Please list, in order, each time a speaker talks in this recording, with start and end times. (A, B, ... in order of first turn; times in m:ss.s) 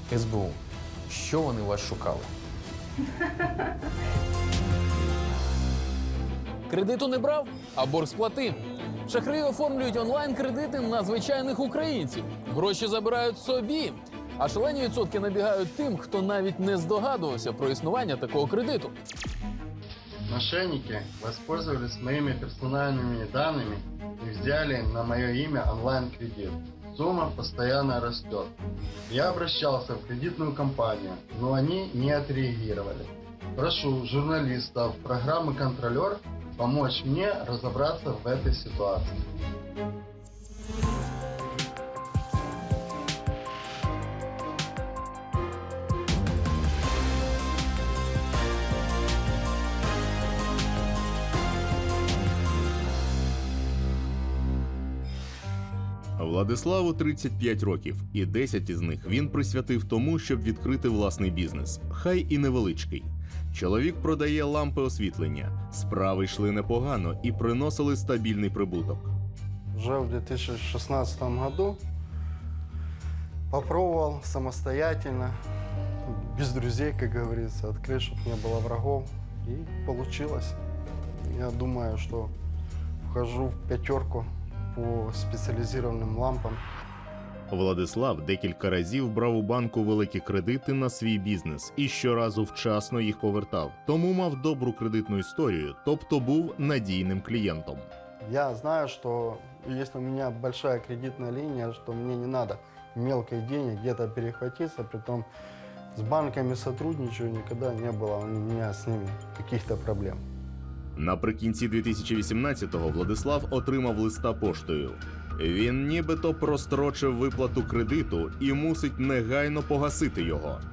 0:00.1-0:02.3 A
0:06.7-0:18.9 A
0:20.3-0:28.5 B
0:29.1-0:39.2 B
0:56.2-1:09.1 C
1:09.7-1:11.8 B
1:13.5-1:15.4 B
1:16.0-1:20.6 B
1:21.3-1:22.3 B
1:23.0-1:26.6 B
1:27.5-1:37.9 C
1:38.2-1:45.3 B
1:45.9-1:50.2 B
1:51.0-2:00.6 C